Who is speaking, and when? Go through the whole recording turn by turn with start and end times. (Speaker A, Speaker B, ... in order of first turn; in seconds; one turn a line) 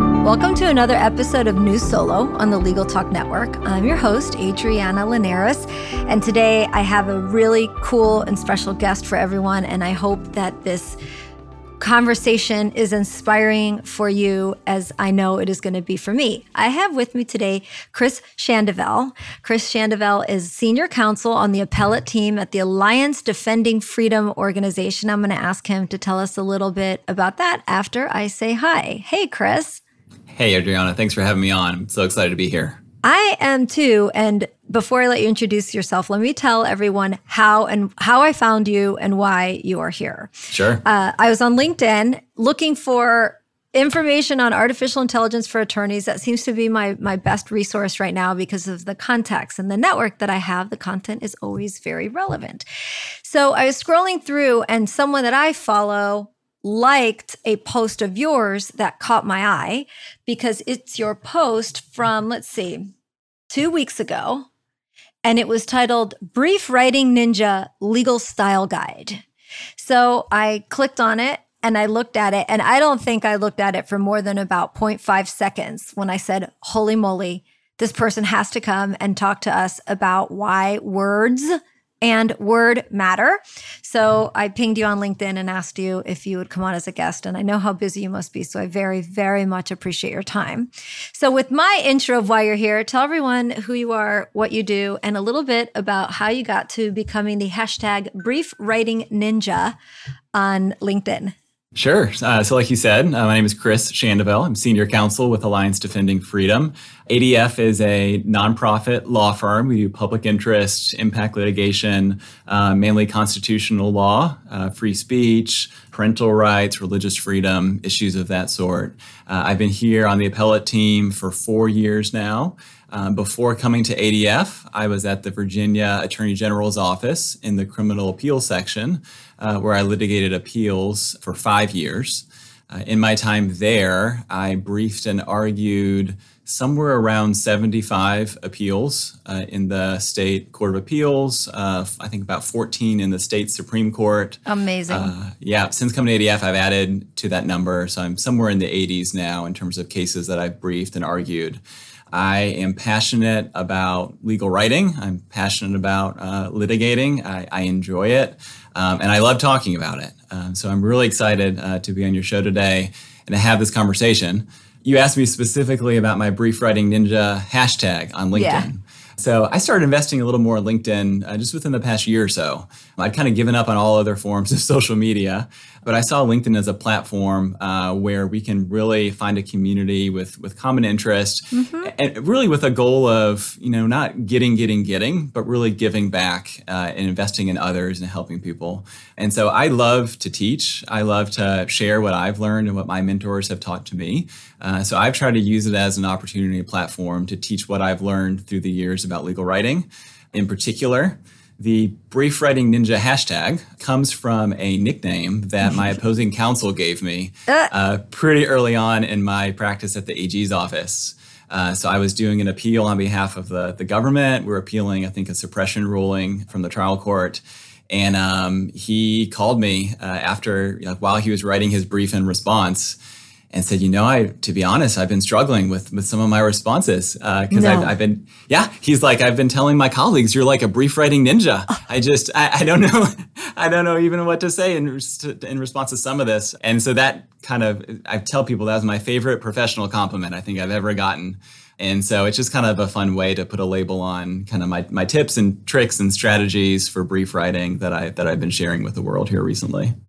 Speaker A: 0.2-11.0
Speaker A: 11.8-29.8
Speaker B: 30.3-32.8
Speaker A: 33.0-40.3
Speaker B: 40.5-40.8
Speaker A: 40.8-52.6
Speaker A: 53.2-62.9
Speaker A: 63.5-64.5
Speaker A: 65.2-69.2
Speaker A: 69.8-99.8
Speaker A: 100.3-101.3
Speaker B: 101.7-151.6
Speaker A: 144.4-145.1
Speaker B: 152.1-223.0
Speaker A: 168.3-168.7
Speaker A: 181.5-181.9
Speaker B: 223.5-249.9
Speaker A: 227.5-227.9